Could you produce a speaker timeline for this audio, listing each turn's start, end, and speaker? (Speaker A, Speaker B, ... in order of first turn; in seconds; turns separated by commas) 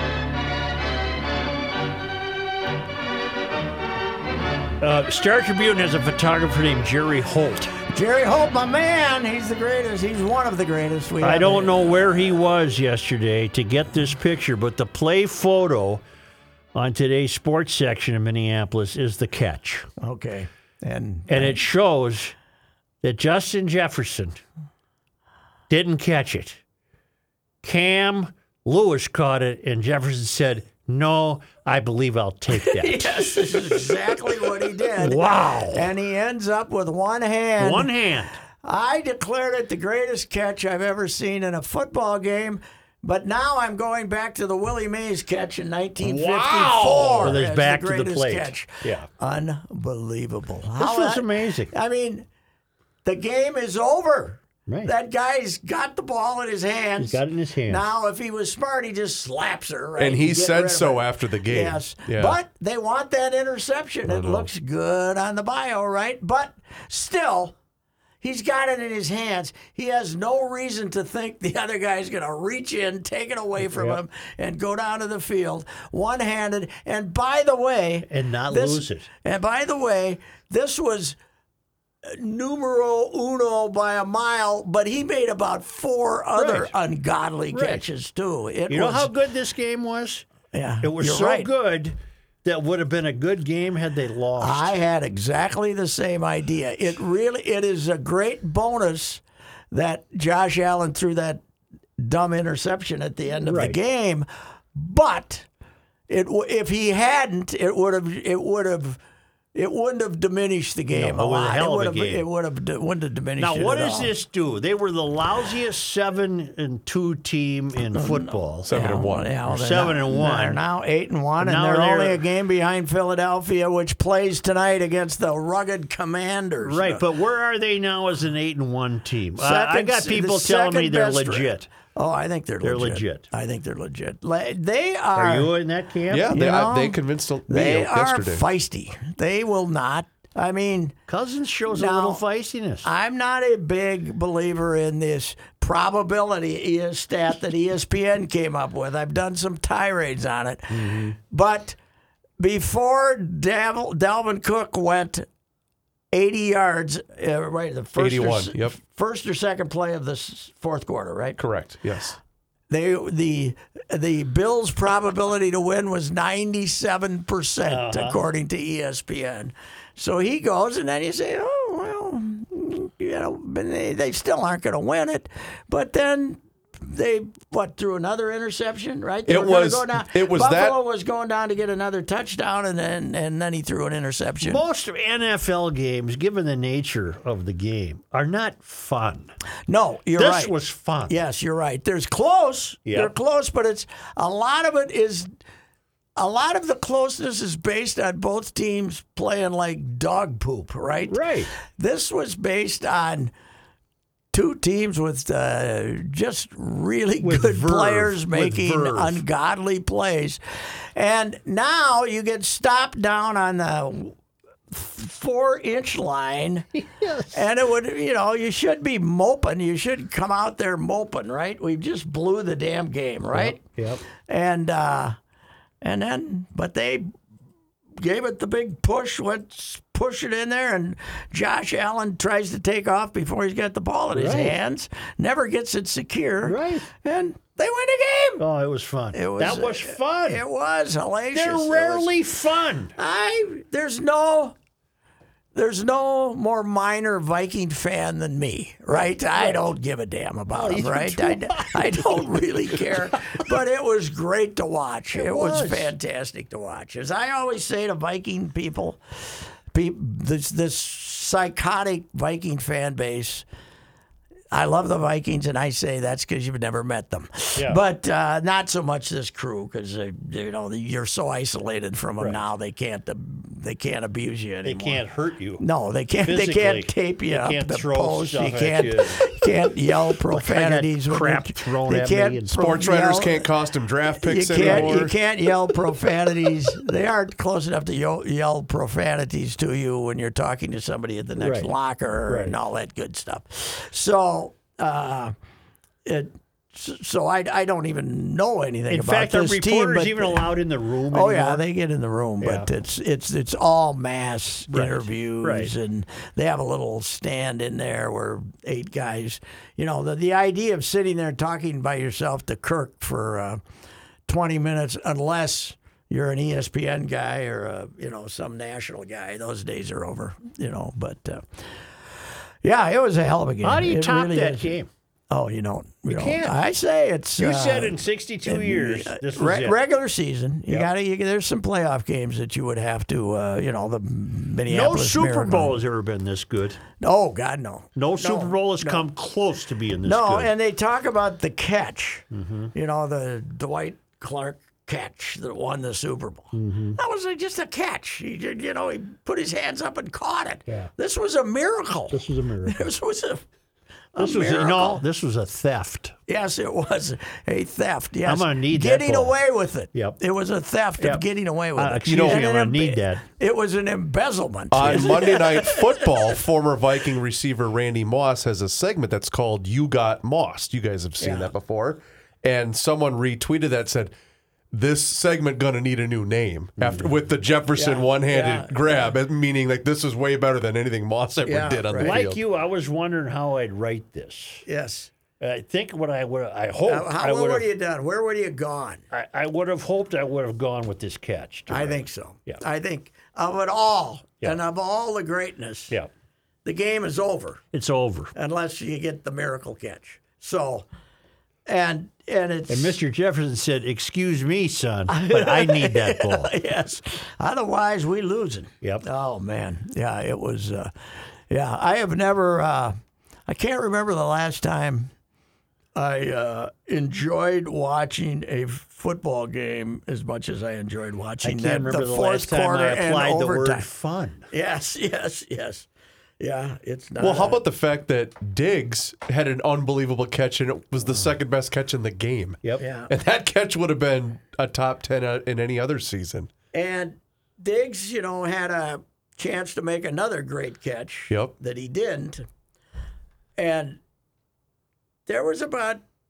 Speaker A: 4.8-7.7, Speaker B: 7.9-12.2, Speaker A: 11.2-16.0, Speaker A: 16.7-19.9, Speaker B: 20.0-21.6, Speaker A: 21.3-22.4, Speaker A: 23.0-24.4, Speaker A: 25.7-26.6, Speaker A: 27.6-35.9, Speaker B: 32.5-37.9, Speaker A: 37.6-38.4, Speaker B: 38.6-52.3, Speaker A: 46.0-49.1, Speaker A: 50.8-51.7, Speaker B: 53.0-67.5, Speaker A: 54.7-54.9, Speaker A: 57.0-57.8, Speaker C: 60.0-62.4, Speaker C: 64.1-64.5, Speaker B: 68.2-81.2, Speaker A: 73.6-74.0, Speaker A: 78.1-79.1, Speaker B: 82.0-89.1, Speaker A: 86.4-86.7, Speaker A: 87.5-87.9, Speaker A: 88.7-90.3, Speaker B: 90.5-91.5, Speaker A: 90.8-94.7, Speaker B: 94.4-101.4, Speaker B: 102.0-105.5, Speaker A: 103.4-103.8, Speaker B: 106.1-109.0, Speaker B: 109.5-114.1, Speaker A: 110.9-112.3, Speaker A: 113.4-118.7, Speaker B: 117.9-127.0, Speaker C: 118.7-119.3, Speaker A: 119.5-120.6, Speaker A: 121.4-122.2, Speaker A: 126.6-131.7, Speaker B: 129.4-135.5, Speaker A: 132.6-133.3, Speaker A: 135.2-136.4, Speaker C: 136.1-138.4, Speaker B: 136.3-137.0, Speaker B: 137.5-141.0, Speaker A: 141.1-142.9, Speaker B: 141.7-142.2, Speaker B: 142.8-151.8, Speaker A: 150.7-151.2, Speaker B: 152.4-155.3, Speaker B: 156.1-161.4, Speaker C: 158.0-158.8, Speaker C: 161.4-162.2, Speaker B: 162.7-184.6, Speaker A: 167.7-168.2, Speaker C: 179.3-180.8, Speaker A: 184.4-189.3, Speaker B: 189.7-190.5, Speaker A: 190.2-191.2, Speaker B: 191.1-195.3, Speaker A: 192.9-193.1, Speaker B: 196.2-203.3, Speaker A: 201.1-201.5, Speaker B: 204.3-210.4, Speaker A: 207.2-209.2, Speaker B: 210.9-214.1, Speaker B: 214.7-216.7, Speaker A: 216.8-217.5, Speaker B: 217.3-223.6, Speaker A: 223.3-224.0, Speaker B: 224.2-225.2, Speaker B: 225.8-227.1, Speaker B: 228.0-238.4, Speaker A: 234.1-234.6, Speaker A: 236.4-236.9, Speaker A: 238.4-240.4, Speaker B: 239.1-242.1, Speaker A: 241.3-242.9, Speaker B: 243.0-244.6, Speaker B: 245.5-263.4, Speaker A: 249.3-249.7, Speaker A: 250.5-253.3, Speaker A: 255.1-255.9, Speaker B: 264.5-275.0, Speaker A: 267.6-267.8, Speaker A: 274.6-275.6, Speaker B: 275.6-283.5, Speaker A: 276.2-279.3, Speaker A: 280.3-282.7, Speaker C: 282.6-285.2, Speaker B: 284.2-295.3, Speaker A: 284.6-285.1, Speaker A: 291.4-291.7, Speaker A: 292.3-292.6, Speaker B: 296.1-300.5, Speaker A: 298.9-301.6, Speaker B: 301.1-313.6, Speaker A: 302.4-302.7, Speaker A: 304.7-305.8, Speaker B: 314.3-321.5, Speaker B: 322.6-324.7, Speaker A: 323.6-324.9, Speaker B: 325.3-335.8, Speaker A: 326.1-326.6, Speaker A: 327.4-329.8, Speaker A: 334.7-336.8, Speaker B: 337.0-339.1, Speaker A: 338.0-340.5, Speaker B: 340.1-353.4, Speaker A: 342.3-342.7, Speaker A: 346.5-347.0, Speaker A: 352.1-352.9, Speaker B: 354.1-355.0, Speaker A: 354.2-356.1, Speaker B: 356.3-366.2, Speaker A: 358.2-359.4, Speaker A: 361.0-361.2, Speaker A: 361.8-363.3, Speaker C: 362.1-362.5, Speaker C: 364.7-374.1, Speaker B: 371.2-371.5, Speaker C: 374.7-382.4, Speaker A: 376.8-377.1, Speaker B: 377.8-379.1, Speaker B: 381.4-382.3, Speaker A: 382.0-384.6, Speaker B: 384.7-385.1, Speaker A: 385.4-387.7, Speaker B: 386.9-389.0, Speaker A: 389.1-392.6, Speaker B: 391.7-395.9, Speaker B: 396.6-397.6, Speaker A: 397.7-398.3, Speaker B: 398.4-400.9, Speaker B: 401.7-403.0, Speaker A: 402.7-406.5, Speaker B: 405.1-410.9, Speaker B: 411.5-413.0, Speaker B: 413.5-415.1, Speaker B: 415.9-423.9, Speaker A: 421.4-424.5, Speaker B: 424.5-425.9, Speaker B: 426.4-427.6, Speaker C: 427.2-436.5, Speaker B: 432.8-433.1, Speaker B: 436.7-442.5, Speaker B: 443.6-444.0, Speaker B: 445.3-446.0